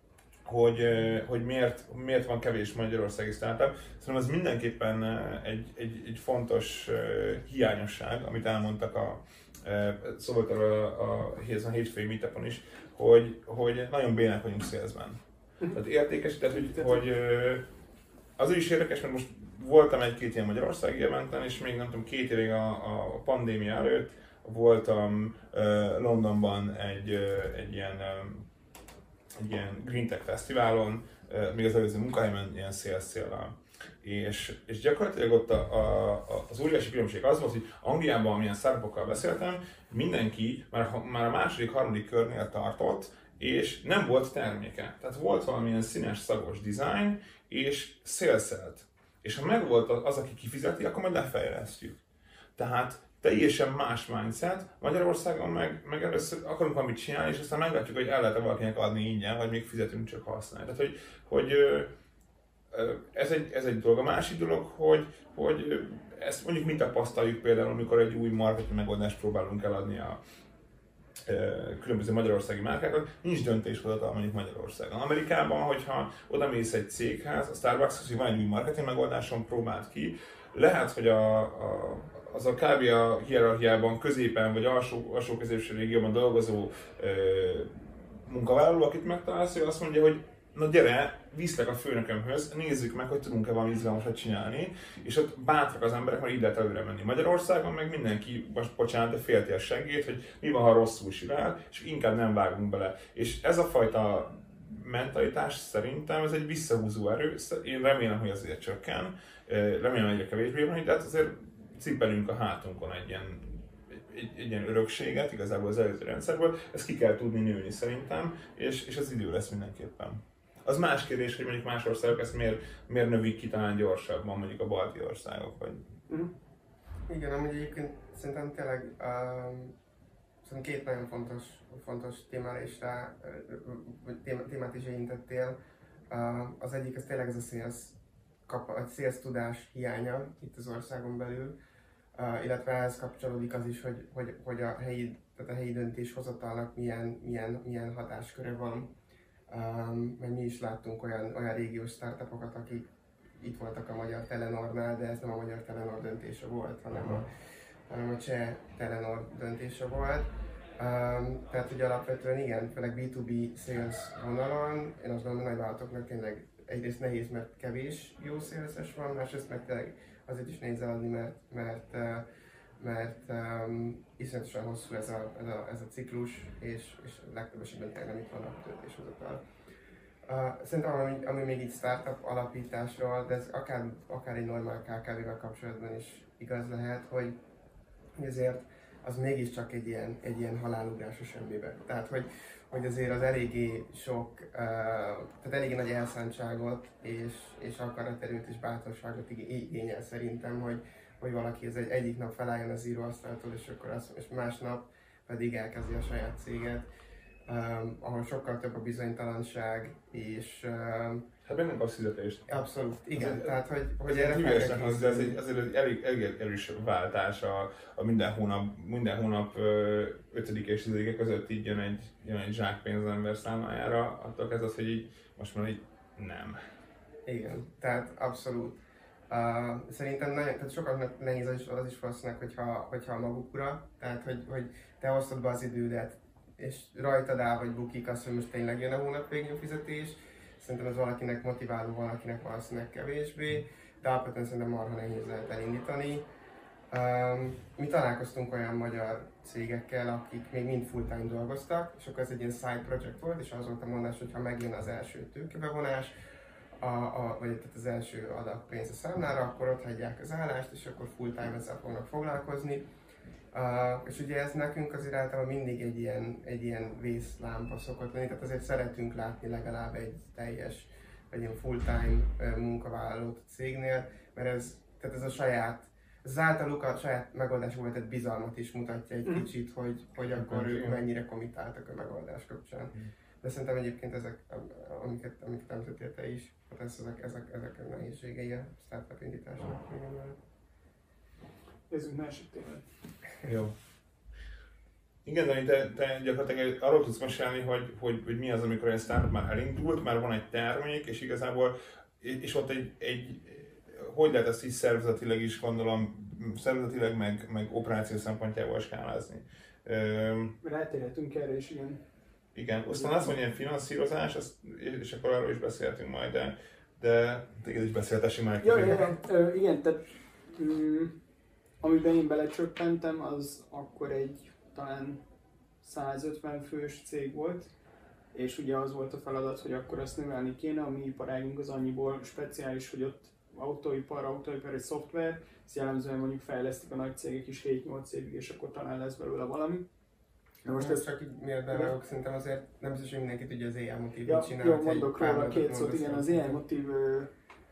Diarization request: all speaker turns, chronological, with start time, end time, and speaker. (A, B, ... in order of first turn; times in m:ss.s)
0:00.4-0:15.2 A
0:15.7-0:17.7 A
0:18.4-0:28.5 A
0:29.3-0:52.0 A
0:52.6-1:01.9 A
1:02.7-1:10.2 A
1:11.2-2:06.0 A
2:07.1-2:09.7 B
2:10.4-2:15.6 B
2:16.1-2:21.6 B
2:22.1-2:28.9 B
2:29.5-2:37.3 B
2:37.9-2:52.2 B
2:52.8-2:59.4 B
3:00.2-3:07.4 B
3:08.2-3:26.9 B
3:27.5-3:31.3 B
3:31.4-3:32.5 A
3:32.5-3:35.4 B
3:33.1-3:46.6 A
3:47.2-4:06.3 B
4:06.9-4:16.1 B
4:16.8-4:22.8 B
4:23.5-4:50.4 B
4:40.3-4:41.0 A
4:51.9-4:52.8 C
4:53.4-4:53.7 A
4:55.2-5:10.6 A
5:10.6-5:12.0 C
5:12.5-5:19.2 A
5:12.9-5:13.3 C
5:18.6-5:21.2 C
5:21.8-5:25.2 C
5:25.8-5:27.7 C
5:28.3-5:39.9 C
5:40.6-5:41.1 C
5:40.7-5:46.6 B
5:44.2-5:47.3 C